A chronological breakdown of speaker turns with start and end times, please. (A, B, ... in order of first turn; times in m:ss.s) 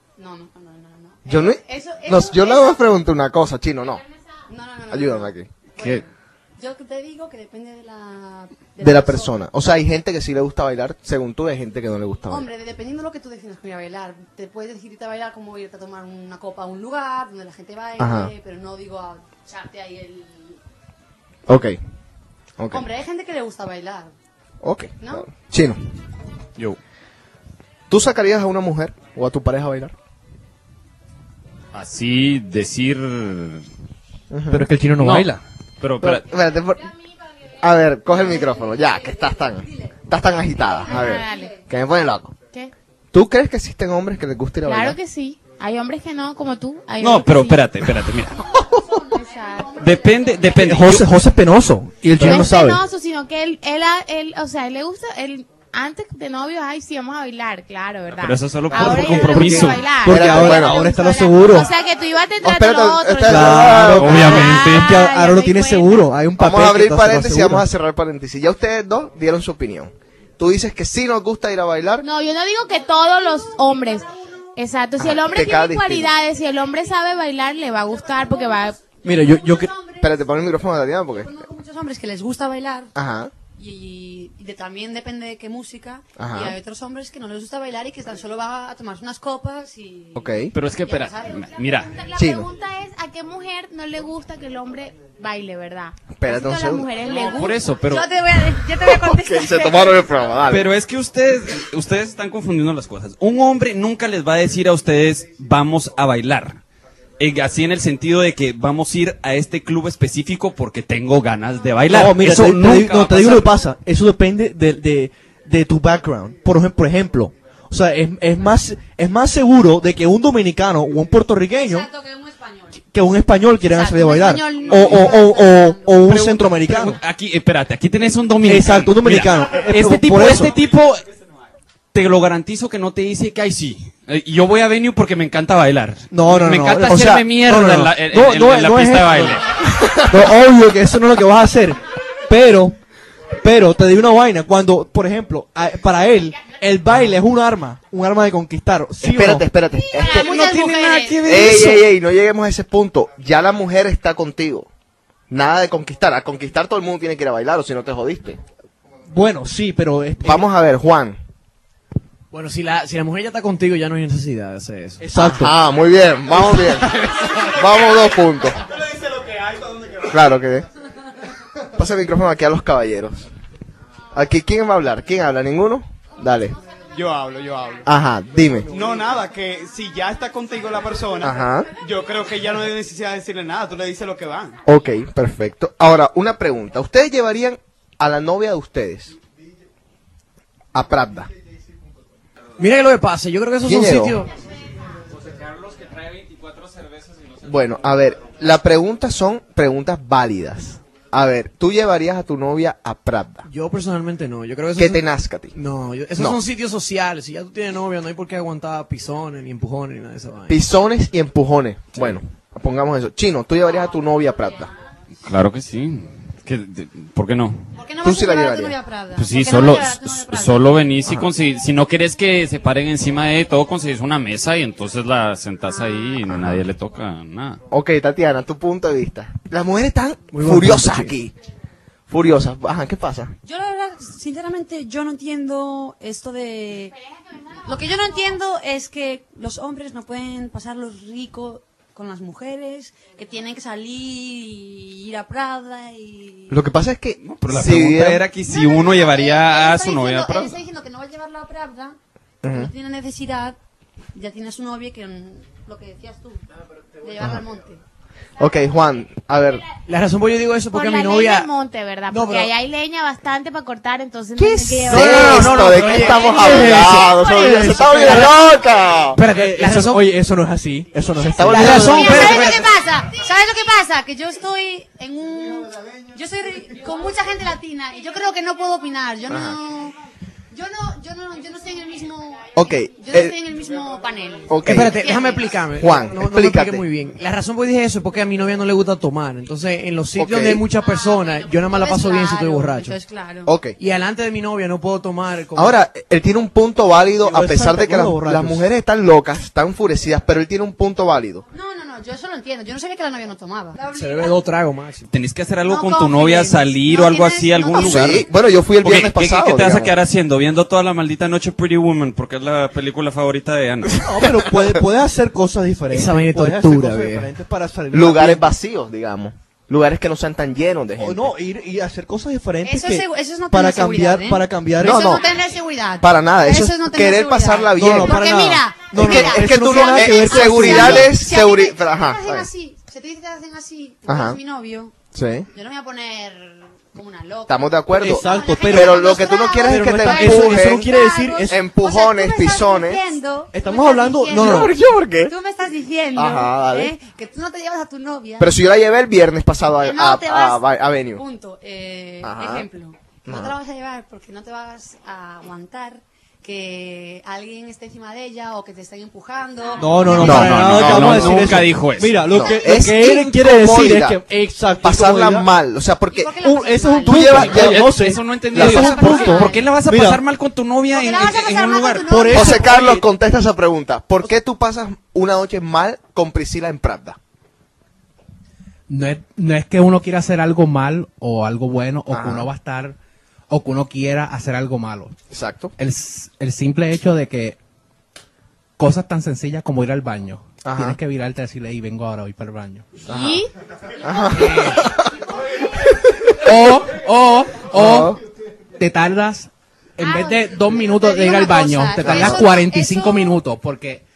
0:00.2-0:02.8 A
0:01.3-0:04.0 B
0:04.5-0:09.4 A
0:04.9-0:05.5 B
0:05.8-0:06.0 C
0:08.8-0:12.5 B
0:12.3-0:20.6 A
0:18.0-0:18.3 B
0:21.5-0:21.8 B
0:22.6-0:22.9 B
0:22.7-0:24.1 A
0:24.6-0:25.9 B
0:25.0-0:25.3 A
0:27.9-0:29.9 B
0:31.7-0:33.6 C
0:34.3-0:34.7 B
0:34.5-0:35.4 D
0:35.0-0:35.3 C
0:35.8-0:36.2 C
0:36.0-0:36.9 B
0:37.6-0:42.4 B
0:38.2-0:39.9 A
0:40.7-0:41.6 A
0:40.8-0:41.6 E
0:43.1-0:45.0 B
0:44.6-0:47.7 E
0:47.0-0:48.4 C
0:48.7-0:50.6 A
0:49.3-0:49.7 E
0:49.8-0:51.1 C
0:50.6-0:52.8 D
0:52.2-0:52.5 B
0:52.2-1:06.0 E
0:58.2-0:59.9 C
0:58.7-1:01.7 D
1:00.1-1:00.9 B
1:02.4-1:04.5 B
1:03.2-1:07.7 D
1:04.0-1:04.9 C
1:06.4-1:12.0 B
1:12.0-1:19.0 E
1:13.4-1:14.5 A
1:15.0-1:16.1 B
1:18.0-1:20.4 A
1:19.0-1:19.7 D
1:20.0-1:21.3 B
1:21.1-1:22.9 A
1:23.0-1:23.3 B
1:23.6-1:31.7 A
1:26.2-1:26.6 B
1:30.2-1:30.6 B
1:30.5-1:32.0 C
1:31.8-1:37.7 E
1:32.2-1:32.5 B
1:36.2-1:36.9 B
1:37.0-1:38.1 C
1:37.0-1:40.0 A
1:38.7-1:40.7 B
1:40.5-1:46.6 C
1:47.2-1:53.5 C
1:51.9-2:01.9 D
2:01.5-2:02.8 A
2:02.9-2:07.0 D
2:03.7-2:06.0 A
2:04.7-2:05.1 C
2:06.1-2:11.0 C
2:08.4-2:10.6 D
2:11.9-2:19.6 C
2:16.1-2:19.4 D
2:16.9-2:17.3 B
2:19.7-2:20.2 B
2:20.1-2:22.8 D
2:23.4-2:29.5 D
2:29.0-2:30.4 B
2:29.8-2:31.2 A
2:30.1-2:31.8 C
2:31.2-2:34.7 B
2:35.3-2:38.4 B
2:39.1-2:40.5 D
2:40.2-2:41.2 B
2:42.3-2:45.0 F
2:45.0-2:45.6 D
2:45.2-2:48.6 B
2:47.1-2:47.5 G
2:48.6-2:50.1 G
2:50.1-2:50.7 B
2:51.7-2:53.3 B
2:54.1-2:56.6 B
2:56.9-2:57.9 G
2:57.8-2:58.7 B
2:58.7-3:04.6 G
3:01.2-3:01.7 B
3:04.6-3:09.2 B
3:10.7-3:11.3 B
3:12.6-3:14.3 F
3:13.6-3:14.2 B
3:15.9-3:17.2 C
3:17.4-3:23.5 B
3:23.5-3:25.0 F
3:24.8-3:25.6 B
3:25.6-3:30.6 F
3:30.5-3:34.7 B
3:35.2-3:37.7 C
3:37.8-3:40.8 A
3:38.0-3:38.8 B
3:39.2-3:47.6 C
3:46.4-3:46.6 B
3:47.7-3:51.3 B
3:50.4-3:51.1 D
3:52.1-3:53.3 B
3:53.4-3:56.9 A
3:57.6-4:06.6 A
4:06.5-4:08.2 B
4:07.2-4:10.6 C
4:08.5-4:13.6 A
4:12.4-4:12.7 B
4:14.1-4:16.4 A
4:17.0-4:17.8 A
4:18.4-4:19.7 B
4:19.9-4:21.5 F
4:20.7-4:25.6 E
4:22.1-4:22.5 F
4:24.4-4:29.2 B
4:24.9-4:27.0 F
4:26.3-4:28.3 D
4:28.0-4:28.3 F
4:29.2-4:30.0 F
4:29.2-4:32.6 D
4:31.2-4:32.5 B
4:31.5-4:32.5 F
4:31.6-4:40.0 A
4:39.3-4:39.6 B
4:40.5-4:45.6 A
4:42.6-4:43.4 B
4:44.5-4:44.9 B
4:44.6-4:53.0 F
4:45.8-4:46.8 B
4:50.2-4:50.6 B
4:51.5-4:53.6 A
4:53.5-4:53.8 B
4:53.8-4:55.8 F
4:55.6-5:01.4 B
4:57.2-4:58.7 D
5:01.5-5:04.4 A
5:03.9-5:05.1 F
5:05.1-5:08.3 C
5:05.6-5:08.2 A
5:07.7-5:10.0 B
5:08.8-5:14.0 C
5:13.9-5:18.5 D
5:14.1-5:14.8 B
5:15.9-5:17.2 F
5:17.9-5:21.4 B
5:21.0-5:25.2 D
5:22.6-5:34.9 A
5:24.8-5:25.3 B
5:26.0-5:28.3 B
5:27.7-5:31.1 D
5:28.9-5:32.5 B
5:34.1-5:34.4 B
5:35.1-5:35.5 B
5:35.5-5:48.6 A
5:37.5-5:40.9 B
5:38.0-5:41.6 D
5:41.5-5:43.0 B
5:43.5-5:44.8 D
5:44.3-5:45.3 B
5:46.2-5:46.9 B
5:48.4-5:51.2 B
5:49.8-6:00.4 A
5:52.2-5:52.7 B
5:53.3-5:53.5 B
5:59.8-6:05.5 D
6:00.1-6:01.7 B
6:00.1-6:02.2 C
6:02.3-6:04.2 B
6:04.8-6:06.4 B
6:06.2-6:07.7 A
6:06.4-6:10.2 D
6:07.0-6:07.9 B
6:07.5-6:12.2 C
6:08.5-6:09.6 A
6:10.9-6:12.8 A
6:12.1-6:13.1 D
6:12.3-6:17.2 B
6:18.9-6:23.0 H
6:22.1-6:22.5 B
6:23.5-6:25.2 H
6:25.3-6:25.7 B
6:25.8-6:27.6 H
6:28.8-6:33.0 H
6:30.6-6:31.0 B
6:33.1-6:33.5 B
6:33.1-6:33.5 E
6:34.0-6:35.1 B
6:34.3-6:34.9 H
6:36.3-6:38.2 H
6:37.7-6:38.2 B
6:38.8-6:44.0 H
6:40.0-6:43.4 A
6:42.0-6:42.4 B